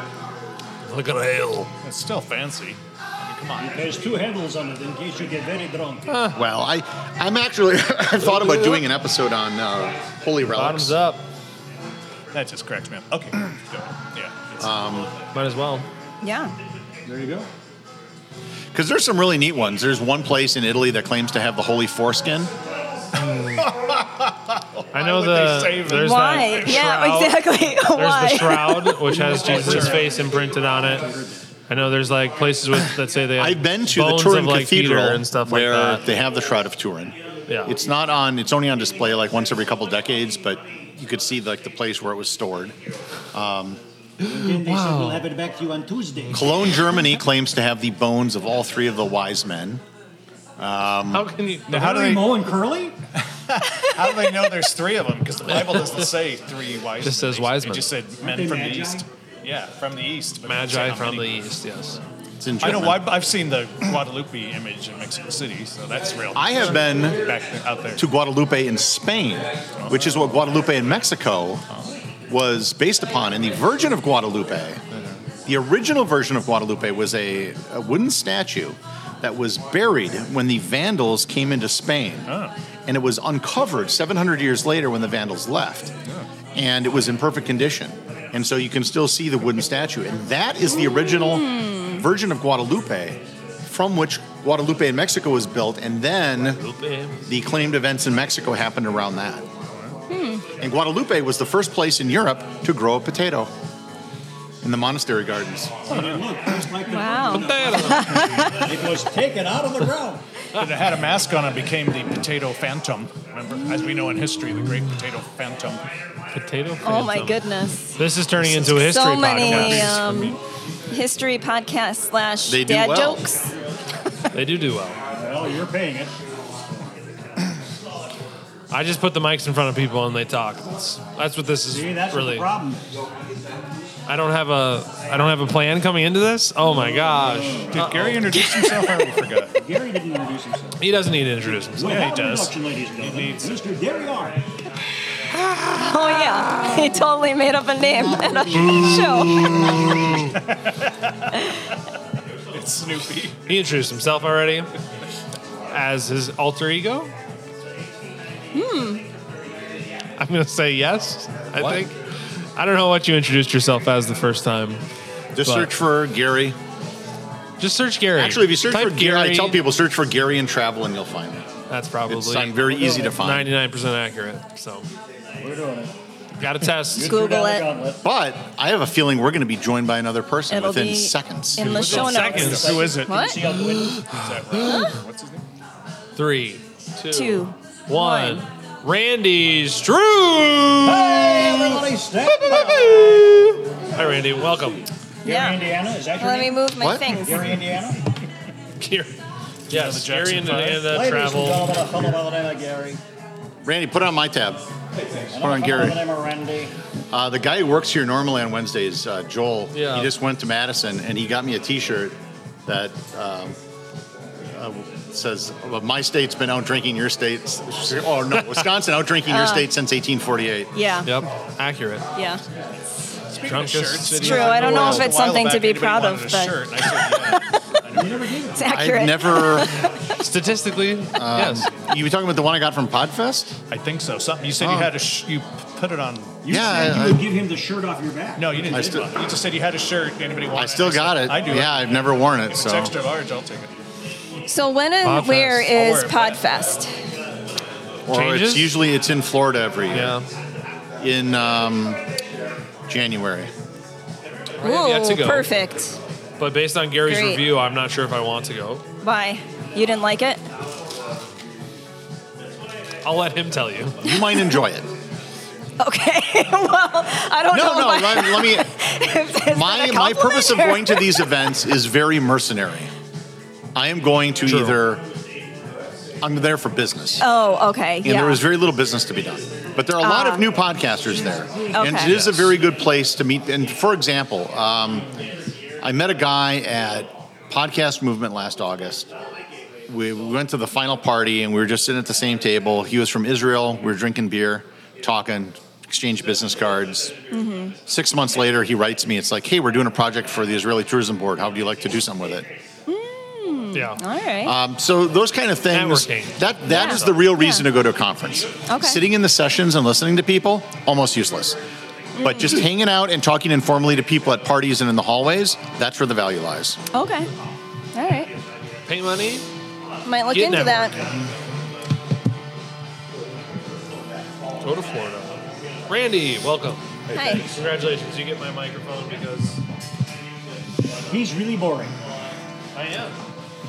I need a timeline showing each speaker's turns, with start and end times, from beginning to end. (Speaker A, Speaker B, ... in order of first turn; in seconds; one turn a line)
Speaker A: 0.8-1.7
Speaker B: 1.8-4.0
Speaker C: 3.6-6.3
Speaker A: 6.1-6.4
Speaker D: 6.3-11.0
Speaker A: 10.5-11.2
Speaker B: 12.3-14.8
Speaker D: 14.6-15.1
Speaker A: 15.3-15.9
Speaker E: 16.2-16.5
Speaker C: 17.1-17.5
Speaker D: 18.7-22.5
Speaker A: 23.2-23.7
Speaker B: 23.6-26.4
Speaker A: 24.9-31.1
Speaker E: 25.9-29.1
Speaker B: 29.1-30.1
Speaker C: 29.2-31.5
Speaker A: 31.7-36.0
Speaker D: 33.4-42.8
Speaker A: 37.5-37.8
Speaker D: 43.3-43.8
Speaker A: 44.2-45.3
Speaker C: 44.2-47.0
Speaker D: 46.3-49.8
Speaker D: 50.6-51.3
Speaker A: 51.1-51.7
Speaker B: 51.7-52.5
Speaker C: 51.7-53.0
Speaker B: 53.2-61.4
Speaker A: 55.6-55.8
Speaker A: 57.0-57.9
Speaker C: 58.2-59.1
Speaker A: 60.5-62.0
Speaker D: 62.4-63.1
Speaker B: 62.6-68.0
Speaker D: 66.3-67.2
Speaker D: 68.0-71.7
Speaker B: 71.7-72.0
Speaker D: 72.3-74.8
Speaker B: 74.9-75.2
Speaker D: 75.5-82.3
Speaker B: 82.3-82.5
Speaker D: 82.9-85.9
Speaker D: 86.5-96.6
Speaker E: 90.8-92.0
Speaker A: 96.6-97.2
Speaker D: 97.3-99.5
Speaker E: 100.1-100.5
Speaker D: 100.6-103.5
Speaker D: 104.6-106.0
Speaker C: 105.9-110.2
Speaker B: 105.9-106.2
Speaker E: 106.9-108.7
Speaker A: 107.3-108.6
Speaker B: 110.6-115.8
Speaker A: 116.3-117.4
Speaker E: 116.8-120.4
Speaker A: 118.0-120.3
Speaker B: 119.5-120.2
Speaker E: 120.9-123.5
Speaker D: 122.5-123.2
Speaker A: 124.3-125.0
Speaker C: 125.1-126.1
Speaker A: 128.7-132.5
Speaker C: 131.7-132.9
Speaker A: 134.1-138.2
Speaker C: 136.8-137.7
Speaker B: 137.7-139.6
Speaker C: 139.6-140.8
Speaker A: 140.8-142.1
Speaker C: 141.8-144.4
Speaker B: 141.8-143.6
Speaker E: 145.7-149.9
Speaker C: 148.0-148.8
Speaker A: 149.1-150.2
Speaker B: 150.4-150.9
Speaker B: 152.5-153.4
Speaker A: 153.5-154.7
Speaker A: 155.7-157.1
Speaker E: 158.5-159.1
Speaker A: 160.2-162.0
Speaker A: 162.6-164.8
Speaker D: 165.3-166.6
Speaker A: 165.4-165.7
Speaker A: 167.6-169.6
Speaker D: 168.2-171.5
Speaker A: 171.7-174.9
Speaker D: 172.1-173.5
Speaker C: 175.4-175.9
Speaker A: 176.4-177.2
Speaker C: 176.9-178.0
Speaker E: 177.0-177.7
Speaker D: 178.0-181.8
Speaker E: 180.5-183.4
Speaker B: 181.6-183.4
Speaker A: 181.7-182.8
Speaker C: 182.4-184.2
Speaker B: 184.1-185.4
Speaker A: 184.5-184.9
Speaker A: 186.2-194.9
Speaker E: 187.1-188.4
Speaker C: 190.8-193.4
Speaker C: 195.2-198.0
Speaker E: 195.2-197.6
Speaker D: 196.8-197.3
Speaker A: 198.8-199.1
Speaker B: 199.7-200.9
Speaker A: 199.7-201.8
Speaker C: 200.8-203.0
Speaker D: 203.6-204.7
Speaker C: 205.3-206.7
Speaker D: 205.3-206.0
Speaker D: 207.1-213.6
Speaker A: 209.7-210.1
Speaker D: 214.5-220.9
Speaker E: 219.3-219.7
Speaker E: 220.8-221.1
Speaker A: 221.1-222.1
Speaker E: 222.2-222.4
Speaker B: 223.3-228.5
Speaker A: 223.4-225.1
Speaker E: 224.2-227.7
Speaker C: 227.9-228.7
Speaker E: 228.5-230.0
Speaker D: 228.7-229.8
Speaker A: 230.2-231.7
Speaker D: 231.2-233.6
Speaker B: 233.7-236.6
Speaker D: 234.6-234.9
Speaker C: 236.4-239.0
Speaker D: 236.5-237.2
Speaker B: 238.4-243.7
Speaker D: 238.7-239.1
Speaker D: 240.5-242.9
Speaker E: 244.5-246.9
Speaker A: 245.0-245.7
Speaker B: 245.7-246.4
Speaker D: 248.1-250.2
Speaker A: 248.1-248.8
Speaker A: 249.9-250.2
Speaker D: 251.0-252.0
Speaker D: 252.9-253.5
Speaker A: 254.6-255.5
Speaker E: 254.6-256.0
Speaker A: 256.4-258.8
Speaker E: 257.1-257.4
Speaker E: 259.0-260.4
Speaker A: 263.0-264.0
Speaker D: 264.0-264.9
Speaker E: 264.1-264.6
Speaker E: 265.8-271.3
Speaker D: 267.5-268.7
Speaker D: 269.5-272.9
Speaker D: 273.8-275.1
Speaker A: 274.5-274.8
Speaker D: 276.2-277.3
Speaker E: 277.2-278.4
Speaker D: 278.0-285.1
Speaker E: 280.0-280.5
Speaker C: 281.3-281.8
Speaker E: 281.7-282.2
Speaker D: 285.8-289.1
Speaker D: 289.9-297.1
Speaker E: 297.3-297.8
Speaker D: 297.9-302.5
Speaker E: 302.9-304.6
Speaker A: 303.7-304.0
Speaker D: 304.4-311.6
Speaker A: 305.7-306.4
Speaker E: 306.7-307.6
Speaker E: 308.7-309.0
Speaker E: 312.2-312.6
Speaker D: 312.2-316.8
Speaker E: 316.9-317.3
Speaker E: 317.9-318.3
Speaker A: 318.9-319.5
Speaker E: 320.1-321.0
Speaker A: 320.3-321.0
Speaker A: 324.6-329.6
Speaker E: 327.1-327.5
Speaker C: 331.1-332.0
Speaker A: 332.7-333.2